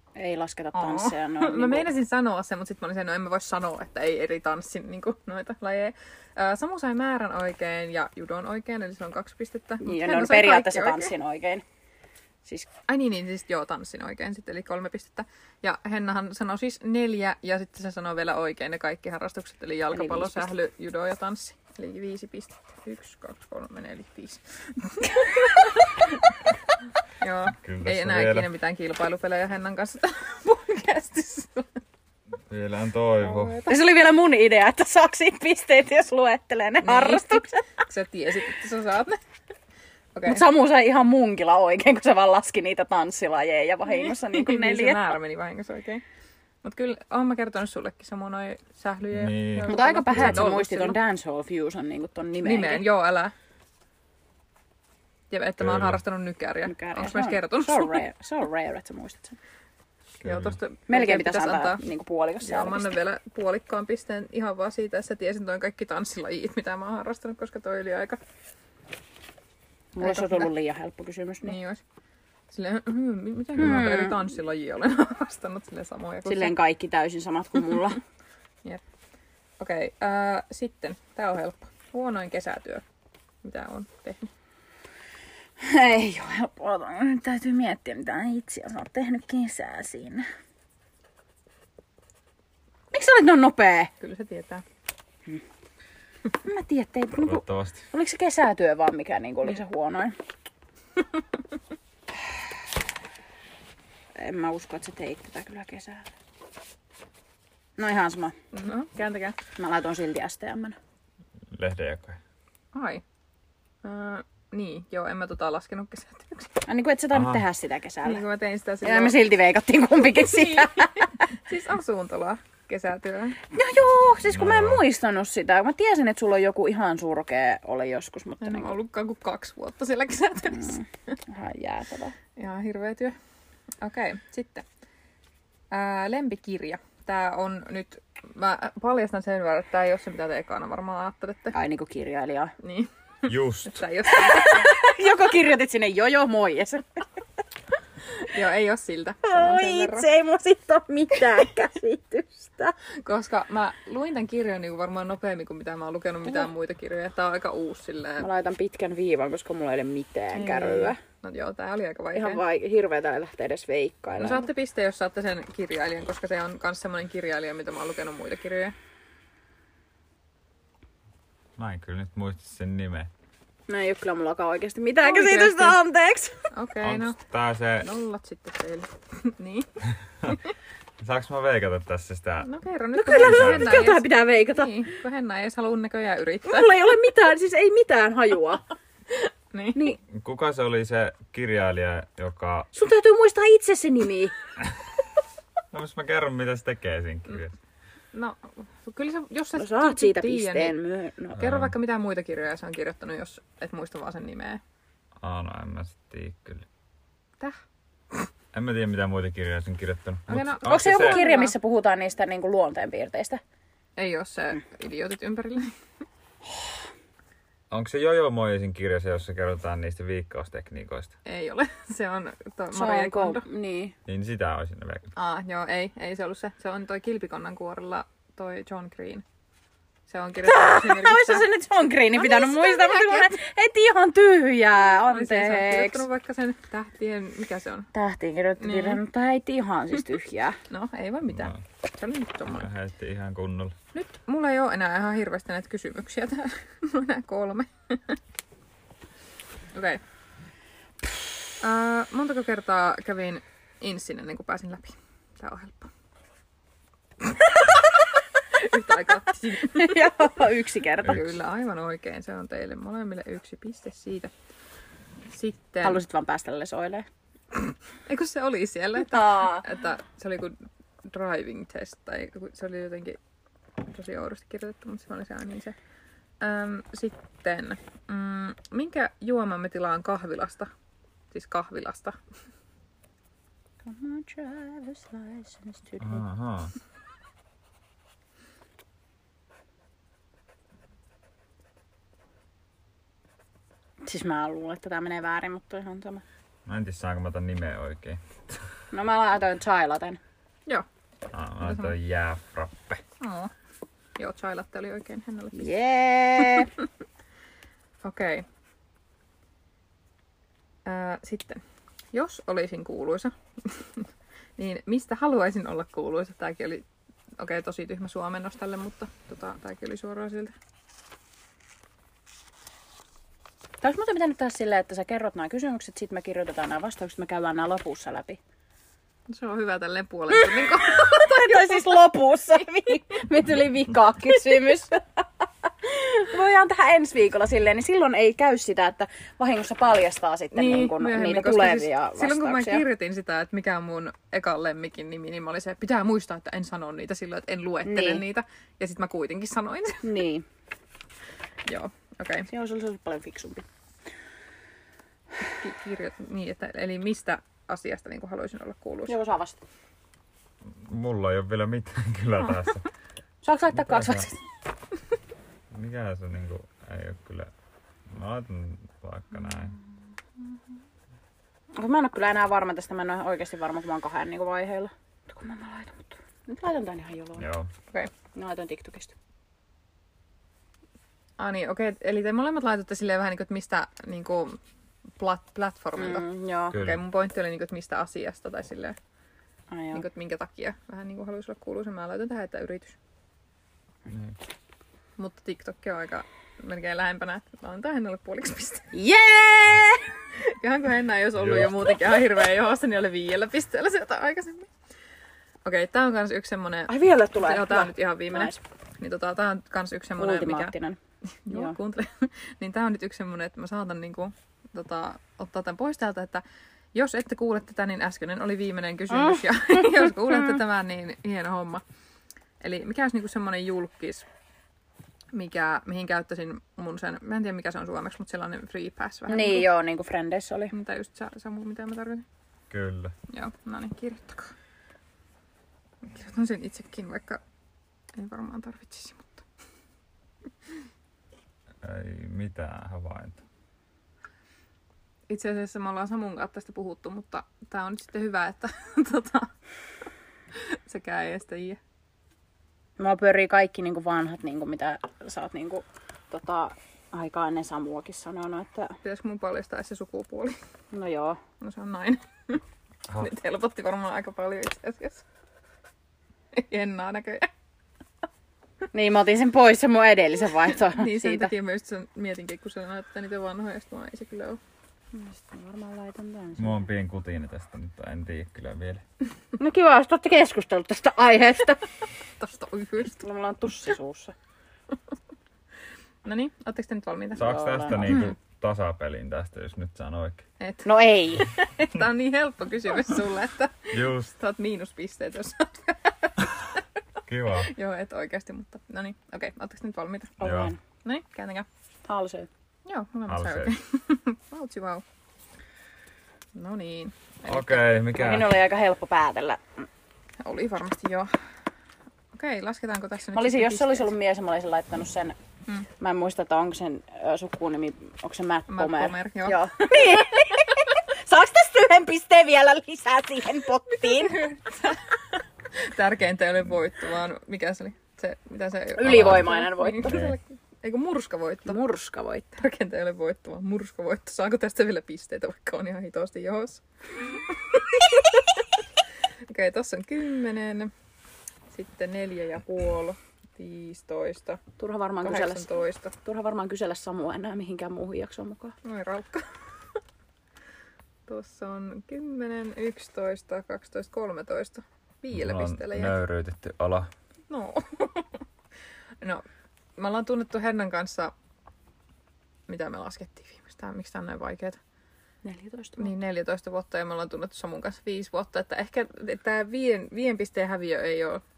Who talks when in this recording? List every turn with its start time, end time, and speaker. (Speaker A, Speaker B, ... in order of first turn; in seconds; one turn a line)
Speaker A: 0.1-1.9
Speaker B: 0.7-11.1
Speaker A: 9.8-11.6
Speaker B: 12.9-26.2
Speaker A: 19.9-20.5
Speaker B: 27.2-31.7
Speaker C: 27.6-28.5
Speaker C: 32.5-33.6
Speaker B: 33.2-33.8
Speaker A: 33.6-37.6
Speaker B: 36.8-39.2
Speaker B: 40.1-40.4
Speaker A: 40.3-45.1
Speaker B: 43.9-46.0
Speaker B: 46.6-51.0
Speaker C: 49.1-50.5
Speaker A: 49.6-52.9
Speaker B: 52.4-53.3
Speaker B: 55.3-58.0
Speaker C: 55.6-56.0
Speaker A: 56.7-59.4
Speaker C: 60.2-60.6
Speaker B: 60.2-61.8
Speaker A: 60.9-63.0
Speaker B: 62.4-68.2
Speaker A: 69.9-71.6
Speaker B: 70.0-70.5
Speaker B: 71.4-71.8
Speaker B: 72.5-76.5
Speaker A: 73.6-74.2
Speaker A: 76.2-78.0
Speaker B: 79.6-82.8
Speaker B: 83.4-84.3
Speaker A: 85.6-90.3
Speaker A: 92.9-93.9
Speaker B: 94.0-94.6
Speaker A: 96.4-100.2
Speaker C: 97.1-97.9
Speaker A: 104.2-106.1
Speaker A: 107.8-108.4
Speaker B: 108.5-109.4
Speaker A: 109.6-110.8
Speaker C: 111.5-112.2
Speaker B: 112.7-113.0
Speaker B: 113.8-116.5
Speaker A: 116.7-118.2
Speaker C: 117.1-117.4
Speaker B: 118.0-119.2
Speaker A: 118.8-121.1
Speaker B: 120.0-123.4
Speaker A: 123.5-128.7
Speaker C: 124.2-124.8
Speaker B: 128.4-130.8
Speaker A: 130.5-132.2
Speaker B: 132.4-133.2
Speaker B: 133.8-134.6
Speaker B: 135.7-141.6
Speaker A: 141.5-142.5
Speaker B: 142.6-144.8
Speaker C: 143.3-143.8
Speaker A: 144.1-147.0
Speaker B: 148.2-150.1
Speaker A: 149.3-152.8
Speaker B: 153.0-158.3
Speaker A: 158.2-161.0
Speaker B: 160.3-162.4
Speaker A: 162.1-164.5
Speaker B: 164.2-168.8
Speaker C: 171.6-173.1
Speaker A: 173.7-176.5
Speaker B: 175.0-175.8
Speaker B: 176.5-177.2
Speaker C: 176.8-177.9
Speaker B: 177.8-179.7
Speaker B: 180.2-180.5
Speaker C: 181.0-182.5
Speaker B: 182.4-186.7
Speaker A: 182.9-184.9
Speaker C: 183.1-183.9
Speaker A: 186.4-188.6
Speaker B: 189.1-189.9
Speaker A: 189.8-190.0
Speaker C: 190.1-192.7
Speaker A: 192.8-194.3
Speaker C: 195.7-197.6
Speaker B: 198.1-200.8
Speaker A: 199.6-201.4
Speaker C: 201.3-201.7
Speaker B: 201.4-204.6
Speaker C: 205.2-206.7
Speaker C: 208.5-211.2
Speaker B: 210.3-211.6
Speaker A: 210.6-213.4
Speaker B: 214.0-215.7
Speaker C: 217.7-221.1
Speaker B: 221.2-223.4
Speaker A: 222.7-223.9
Speaker C: 224.1-225.1
Speaker B: 225.1-229.2
Speaker B: 230.1-231.5
Speaker A: 230.4-236.1
Speaker B: 232.1-233.3
Speaker B: 235.1-237.9
Speaker A: 237.9-240.6
Speaker B: 238.6-239.0
Speaker B: 240.7-242.7
Speaker C: 241.3-241.6
Speaker C: 242.4-243.8
Speaker B: 243.9-248.2
Speaker B: 249.7-250.0
Speaker B: 251.6-255.9
Speaker B: 258.5-260.2
Speaker A: 259.7-261.2
Speaker B: 261.0-264.3
Speaker C: 261.0-261.3
Speaker B: 265.3-266.0
Speaker A: 265.8-267.1
Speaker B: 268.1-273.2
Speaker A: 269.1-269.6
Speaker B: 273.9-275.8
Speaker B: 276.4-280.7
Speaker B: 281.3-282.1
Speaker A: 283.8-286.2
Speaker C: 286.0-286.7
Speaker A: 294.0-296.2
Speaker C: 296.6-298.6
Speaker A: 298.9-300.2
Speaker C: 301.3-303.0
Speaker B: 301.6-301.9
Speaker B: 303.2-303.5
Speaker B: 304.2-305.7
Speaker A: 305.6-306.7
Speaker B: 306.4-306.7
Speaker B: 308.0-308.4
Speaker B: 310.9-311.6
Speaker B: 312.1-316.9
Speaker B: 317.4-320.5
Speaker A: 323.8-328.4
Speaker B: 329.3-332.0
Speaker A: 330.3-342.8
Speaker B: 340.5-350.2
Speaker A: 347.9-348.2
Speaker A: 350.0-350.4
Speaker B: 351.6-352.5
Speaker A: 352.5-353.6
Speaker B: 355.6-359.2
Speaker A: 359.1-359.6
Speaker C: 360.6-362.9
Speaker A: 363.4-364.4
Speaker C: 363.7-364.3
Speaker C: 365.7-367.5
Speaker C: 368.1-369.8
Speaker A: 371.8-377.4
Speaker C: 377.4-377.7
Speaker A: 378.3-379.1
Speaker B: 381.4-384.6
Speaker B: 385.2-388.9
Speaker A: 385.9-386.8
Speaker C: 386.7-387.0
Speaker A: 389.7-390.1
Speaker B: 389.9-393.0
Speaker C: 394.1-394.4
Speaker B: 395.2-398.9
Speaker A: 398.9-400.1
Speaker B: 400.4-404.7
Speaker C: 401.4-401.7
Speaker B: 405.6-410.7
Speaker A: 406.9-408.6
Speaker A: 410.2-411.0
Speaker B: 411.4-416.4
Speaker A: 411.5-411.8
Speaker B: 416.9-421.8
Speaker A: 419.1-420.6
Speaker B: 422.6-424.3
Speaker B: 425.3-429.7
Speaker A: 429.3-430.7
Speaker B: 430.7-432.2
Speaker C: 432.7-433.1
Speaker B: 433.3-434.5
Speaker B: 436.0-437.4
Speaker B: 438.2-439.4
Speaker C: 441.8-443.4
Speaker B: 445.3-449.5
Speaker B: 450.6-451.8
Speaker A: 453.0-459.0
Speaker B: 459.0-460.6
Speaker A: 460.9-461.4
Speaker B: 461.6-462.6
Speaker B: 463.2-465.2
Speaker B: 466.6-467.5
Speaker A: 468.9-471.5
Speaker B: 470.8-474.6
Speaker A: 475.1-476.8
Speaker C: 476.6-479.0
Speaker A: 479.6-481.8
Speaker B: 482.4-483.2
Speaker A: 483.2-484.3
Speaker B: 486.2-488.2
Speaker C: 487.4-490.4
Speaker A: 487.4-488.3
Speaker B: 490.6-496.8
Speaker A: 490.9-491.5
Speaker C: 493.9-494.3
Speaker C: 497.3-497.8
Speaker B: 497.6-500.4
Speaker A: 500.4-500.8
Speaker C: 500.4-500.8
Speaker B: 501.0-501.6
Speaker A: 502.1-502.5
Speaker B: 502.9-505.0
Speaker C: 503.3-503.8
Speaker B: 506.6-507.9
Speaker C: 507.5-508.5
Speaker A: 508.1-509.9
Speaker B: 510.4-511.3
Speaker B: 512.3-514.1
Speaker A: 513.3-515.4
Speaker A: 516.0-524.5
Speaker B: 518.7-520.9
Speaker B: 523.9-525.0
Speaker B: 525.8-531.8
Speaker A: 529.0-530.2
Speaker C: 529.0-530.4
Speaker A: 531.7-532.6
Speaker B: 532.6-538.6
Speaker B: 539.5-540.9
Speaker B: 541.7-544.6
Speaker A: 544.8-548.8
Speaker B: 545.2-546.1
Speaker B: 548.8-549.4
Speaker B: 551.3-556.1
Speaker C: 555.3-557.1
Speaker B: 557.5-558.3
Speaker B: 560.0-561.3
Speaker B: 562.7-564.8
Speaker A: 565.4-566.1
Speaker B: 566.0-571.4